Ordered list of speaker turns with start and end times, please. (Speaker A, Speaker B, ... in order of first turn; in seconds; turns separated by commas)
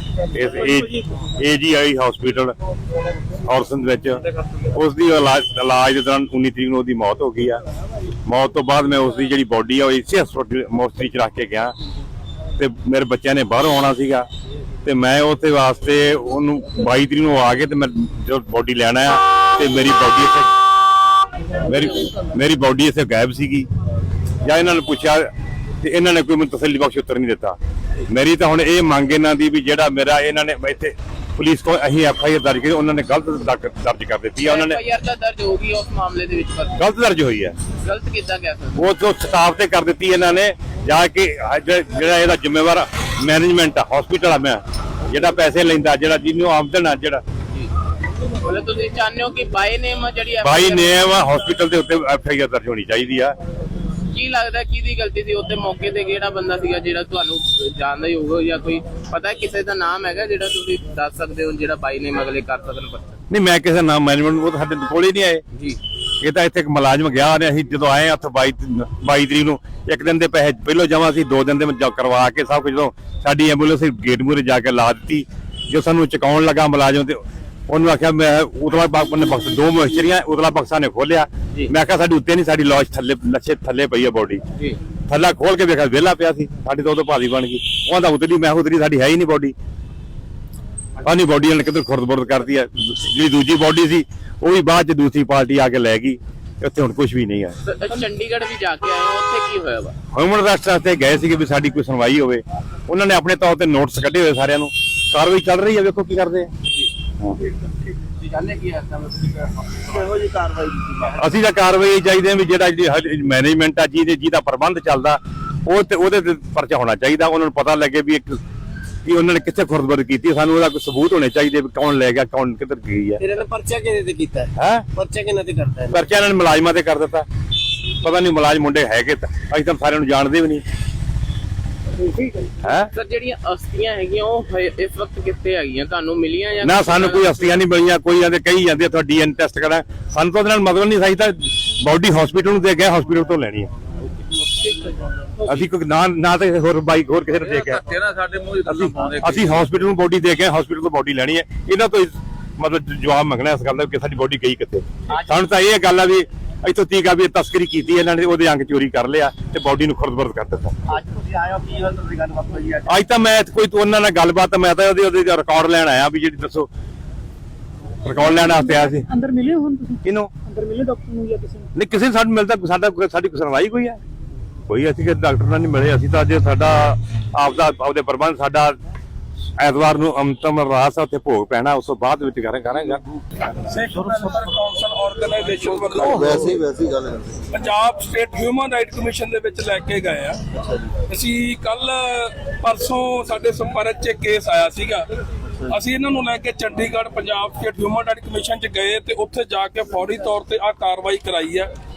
Speaker A: 0.3-2.5, Speaker A: 3.5-7.6, Speaker A: 8.3-11.7, Speaker A: 12.6-14.3, Speaker A: 14.8-20.5, Speaker A: 21.6-23.7, Speaker A: 24.4-25.3, Speaker A: 25.8-27.6, Speaker A: 28.1-34.8, Speaker B: 34.4-36.8, Speaker A: 36.8-37.5, Speaker B: 37.8-38.8, Speaker A: 38.8-47.2, Speaker B: 48.4-51.1, Speaker A: 50.4-53.4, Speaker B: 54.1-63.2, Speaker A: 63.3-65.4, Speaker B: 65.5-65.8, Speaker A: 66.2-84.4, Speaker A: 85.1-89.5, Speaker A: 91.0-97.6, Speaker B: 97.7-100.0, Speaker A: 100.1-106.5, Speaker B: 108.2-109.0, Speaker C: 108.3-111.1, Speaker A: 111.2-118.4, Speaker A: 119.0-123.2, Speaker C: 123.2-125.9, Speaker A: 124.6-124.9, Speaker A: 125.9-127.3, Speaker A: 128.0-130.6, Speaker A: 132.6-132.9, Speaker B: 132.9-137.6, Speaker A: 136.6-143.7, Speaker A: 145.4-147.9, Speaker C: 148.1-149.4, Speaker A: 148.7-160.8, Speaker C: 161.0-162.8, Speaker A: 162.9-166.7, Speaker A: 168.0-169.1, Speaker D: 168.3-171.7, Speaker A: 170.0-170.3, Speaker A: 171.8-174.0, Speaker A: 174.7-178.8, Speaker A: 179.6-183.0, Speaker E: 183.5-186.6, Speaker F: 185.9-187.4, Speaker A: 186.0-186.6, Speaker E: 187.5-190.4, Speaker F: 190.5-190.9, Speaker E: 191.1-195.1, Speaker E: 195.7-201.7